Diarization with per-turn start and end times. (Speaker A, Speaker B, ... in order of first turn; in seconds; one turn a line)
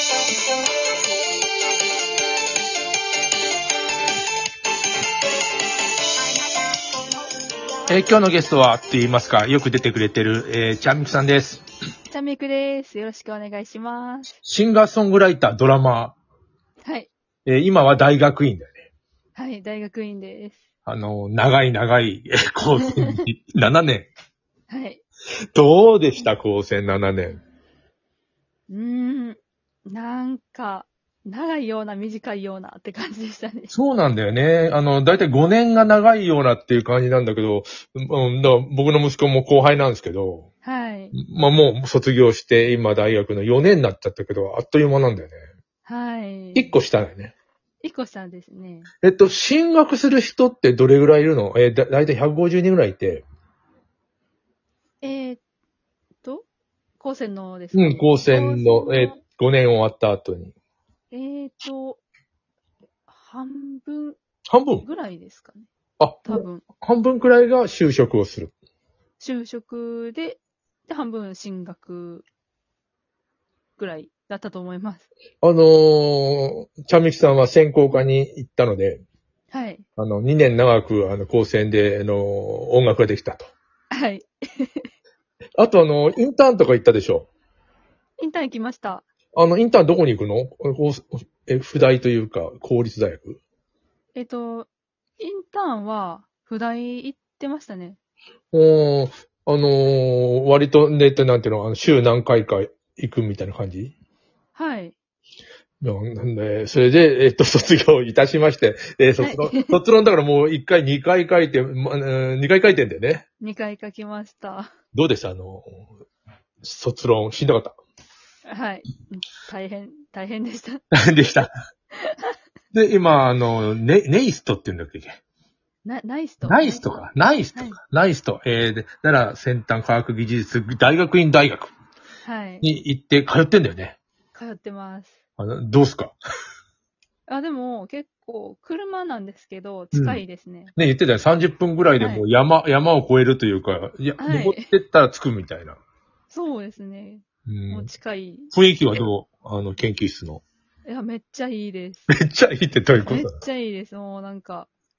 Speaker A: 7.9-11.6
Speaker B: 12.1-14.3
Speaker A: 14.4-16.2
Speaker B: 16.8-17.1
Speaker A: 17.4-18.8
Speaker B: 19.3-20.6
Speaker A: 20.9-24.1
Speaker B: 22.8-23.3
Speaker B: 24.7-25.0
Speaker A: 25.5-27.4
Speaker B: 28.7-33.7
Speaker A: 33.7-40.5
Speaker B: 40.6-41.1
Speaker A: 41.1-45.4
Speaker B: 45.8-46.7
Speaker A: 46.5-47.3
Speaker B: 47.8-48.9
Speaker A: 49.0-53.2
Speaker B: 55.0-55.4
Speaker B: 57.0-59.2
Speaker A: 57.7-60.5
Speaker B: 61.1-62.0
Speaker B: 63.1-64.2
Speaker A: 64.5-64.9
Speaker B: 64.8-65.7
Speaker A: 66.0-68.5
Speaker B: 66.2-66.6
Speaker B: 69.2-72.2
Speaker B: 73.8-75.1
Speaker A: 75.4-79.0
Speaker B: 79.5-79.8
Speaker A: 80.0-83.5
Speaker B: 83.9-84.9
Speaker A: 85.6-87.3
Speaker B: 88.2-89.0
Speaker A: 89.3-93.4
Speaker B: 94.1-94.7
Speaker B: 95.2-98.0
Speaker A: 98.5-103.9
Speaker B: 104.5-105.0
Speaker A: 105.8-113.2
Speaker B: 109.2-109.8
Speaker B: 113.4-114.7
Speaker A: 114.9-115.8
Speaker A: 116.6-117.8
Speaker B: 118.5-120.8
Speaker A: 121.0-121.5
Speaker B: 121.9-122.3
Speaker A: 122.7-125.2
Speaker B: 125.8-126.8
Speaker A: 126.4-131.7
Speaker B: 127.5-127.8
Speaker B: 132.2-132.7
Speaker A: 132.6-134.0
Speaker B: 134.3-135.2
Speaker A: 135.4-136.2
Speaker B: 137.3-140.7
Speaker A: 139.9-140.2
Speaker A: 140.8-145.8
Speaker B: 142.0-142.2
Speaker B: 144.2-144.7
Speaker B: 146.3-149.1
Speaker A: 147.5-147.9
Speaker A: 148.5-150.4
Speaker B: 150.8-152.1
Speaker A: 152.1-153.4
Speaker B: 153.0-154.7